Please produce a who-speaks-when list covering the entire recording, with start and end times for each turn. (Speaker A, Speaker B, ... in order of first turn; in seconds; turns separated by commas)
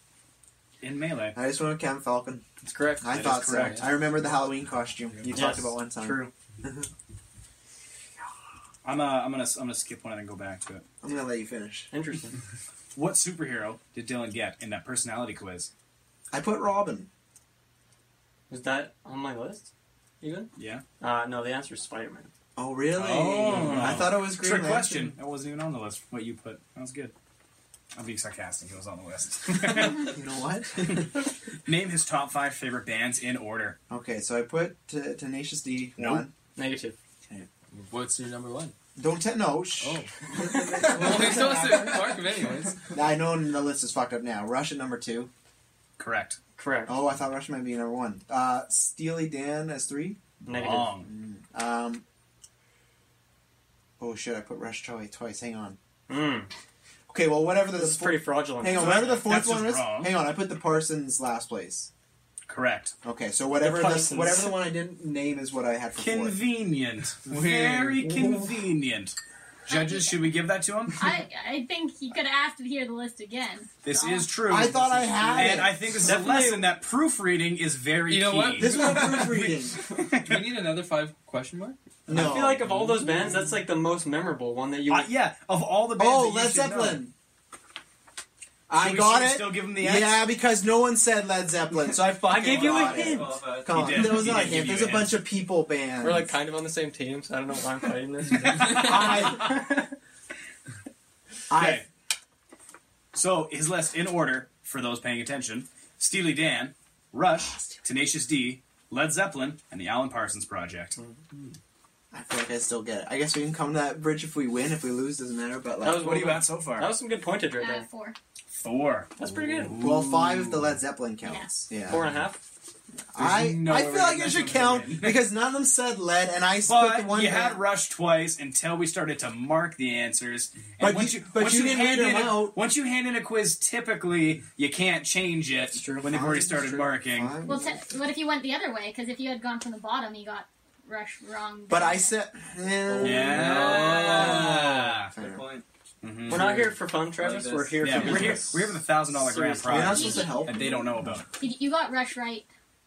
Speaker A: 0.8-1.4, Speaker B: 1.3-2.4, Speaker C: 2.6-3.7, Speaker B: 3.0-6.9, Speaker A: 3.1-3.9, Speaker C: 5.3-6.3, Speaker A: 8.8-10.8, Speaker B: 11.0-11.9, Speaker C: 11.9-12.4, Speaker A: 12.9-15.7, Speaker B: 16.3-17.1, Speaker C: 18.5-19.7, Speaker C: 20.2-22.3, Speaker A: 20.6-20.8, Speaker B: 22.6-25.2, Speaker A: 22.9-27.1, Speaker A: 27.9-30.1, Speaker B: 30.1-31.0, Speaker A: 31.7-33.8, Speaker B: 33.9-36.3, Speaker A: 36.0-36.2, Speaker C: 36.6-37.0, Speaker D: 37.7-38.8, Speaker B: 39.0-42.3, Speaker D: 39.8-42.8, Speaker B: 42.9-45.3, Speaker A: 46.0-46.4, Speaker C: 46.6-47.0, Speaker B: 46.9-50.2, Speaker C: 50.4-51.0, Speaker A: 50.5-51.1, Speaker B: 51.0-52.0, Speaker B: 54.0-55.8, Speaker C: 56.1-56.5, Speaker B: 57.1-61.9, Speaker C: 57.7-59.0, Speaker A: 58.7-60.1, Speaker A: 62.5-63.0, Speaker B: 63.0-66.4, Speaker C: 63.6-64.6, Speaker A: 66.0-71.1, Speaker B: 67.3-68.4, Speaker E: 69.7-70.3, Speaker E: 71.0-74.4, Speaker A: 73.8-80.6, Speaker B: 74.5-76.0, Speaker C: 76.0-76.8, Speaker D: 78.1-79.4, Speaker B: 78.5-79.8, Speaker D: 80.2-81.8, Speaker B: 82.1-82.7, Speaker C: 82.1-85.1, Speaker A: 84.9-87.0, Speaker B: 86.0-87.1, Speaker B: 88.7-96.3, Speaker A: 88.7-90.3, Speaker F: 92.1-94.5, Speaker C: 92.2-93.5, Speaker A: 93.7-95.2, Speaker C: 96.0-99.8, Speaker A: 98.5-99.3, Speaker B: 98.6-99.6, Speaker B: 101.5-101.8, Speaker A: 101.5-101.8, Speaker A: 103.1-110.9, Speaker B: 112.1-116.3, Speaker C: 115.8-117.9, Speaker A: 115.9-117.0, Speaker E: 117.6-118.2, Speaker A: 118.6-120.8, Speaker C: 119.2-119.8, Speaker B: 119.8-122.2, Speaker E: 121.2-121.5, Speaker C: 121.8-122.4, Speaker B: 123.1-127.6, Speaker A: 123.2-125.3, Speaker A: 126.6-137.4, Speaker B: 130.8-132.6, Speaker C: 135.5-136.9, Speaker B: 136.1-137.8, Speaker E: 137.4-142.1, Speaker B: 141.7-144.3, Speaker A: 143.0-145.1, Speaker D: 143.1-144.7, Speaker B: 145.1-145.4, Speaker F: 145.1-145.6, Speaker A: 146.0-146.6, Speaker C: 146.2-149.9, Speaker F: 147.1-148.5, Speaker A: 147.8-151.2, Speaker B: 149.7-151.2, Speaker E: 149.8-150.8, Speaker E: 151.4-152.5